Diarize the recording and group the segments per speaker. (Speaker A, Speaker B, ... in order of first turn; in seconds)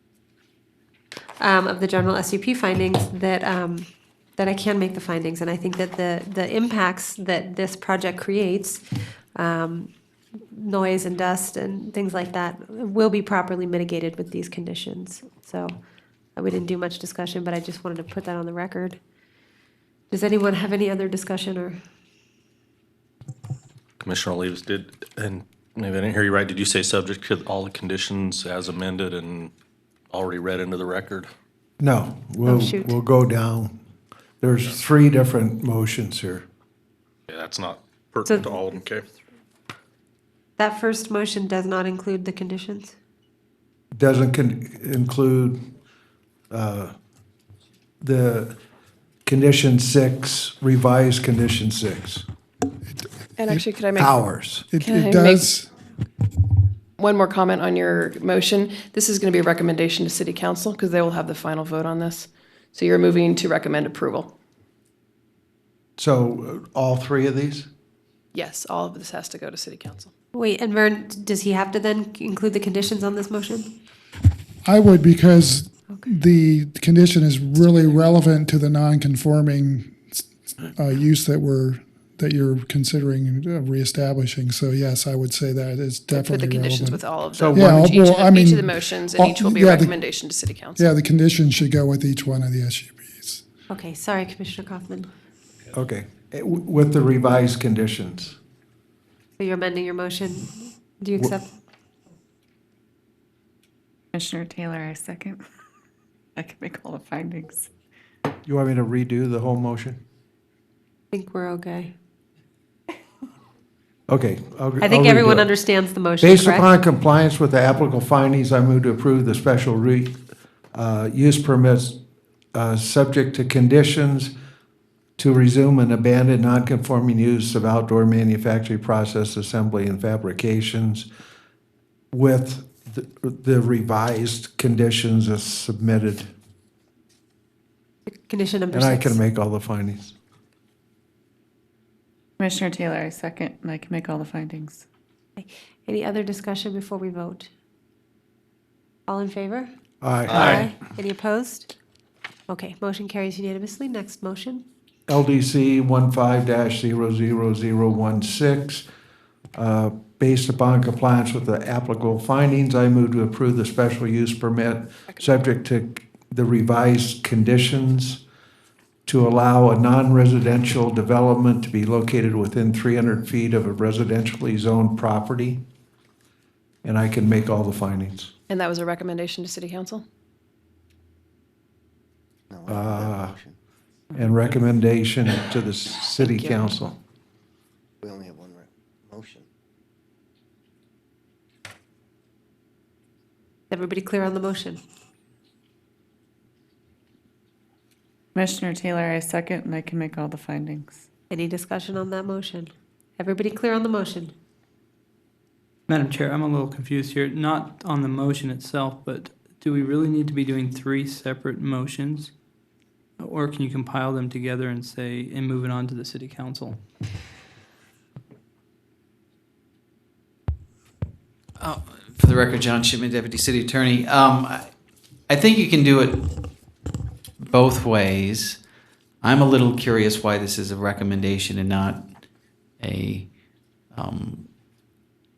Speaker A: 1.4-8.8, 9.3-9.9, 10.5-15.8, 16.4-19.0, 20.1-21.8, 32.4-33.0, 40.6-42.9, 70.3-73.7, 93.7-95.1, 99.4-101.5, 111.1-111.9, 114.8-116.7, 138.1-139.2, 145.4-147.5, 149.1-149.7, 150.3-151.7, 152.5-154.6, 193.7-194.8, 201.3-204.3
Speaker B: 24.0-29.5, 30.1-31.3, 37.3-39.0
Speaker C: 31.8-33.8, 34.4-36.4, 43.9-45.6, 46.5-46.9, 48.0-48.6, 49.2-52.2, 54.0-54.6, 66.0-67.7, 87.3-87.8, 95.7-98.4, 108.5-110.0, 114.1-115.5, 116.2-120.2, 120.7-122.0, 122.5-124.3, 125.2-131.1, 132.1-136.3, 138.7-140.1, 150.0-150.7, 155.1-158.8, 159.5-168.2, 169.1-175.6, 176.8-178.3, 182.7-183.4, 184.1-187.0
Speaker D: 53.4-55.5, 57.0-64.3, 68.3-70.1, 86.1-90.9, 165.1-165.4, 178.5-180.1, 186.2-186.8
Speaker E: 54.6-55.7, 74.6-90.0, 90.8-93.4
Speaker F: 104.1-105.4, 106.3-107.7, 142.4-144.8, 198.3-201.0
Speaker G: 182.5-183.6, 188.0-189.4
Speaker H: 205.9-212.3, 213.2-216.8
Speaker I: 221.6-224.7, 225.3-226.5, 227.4-228.6, 229.2-232.1, 232.8-233.3, 233.9-234.5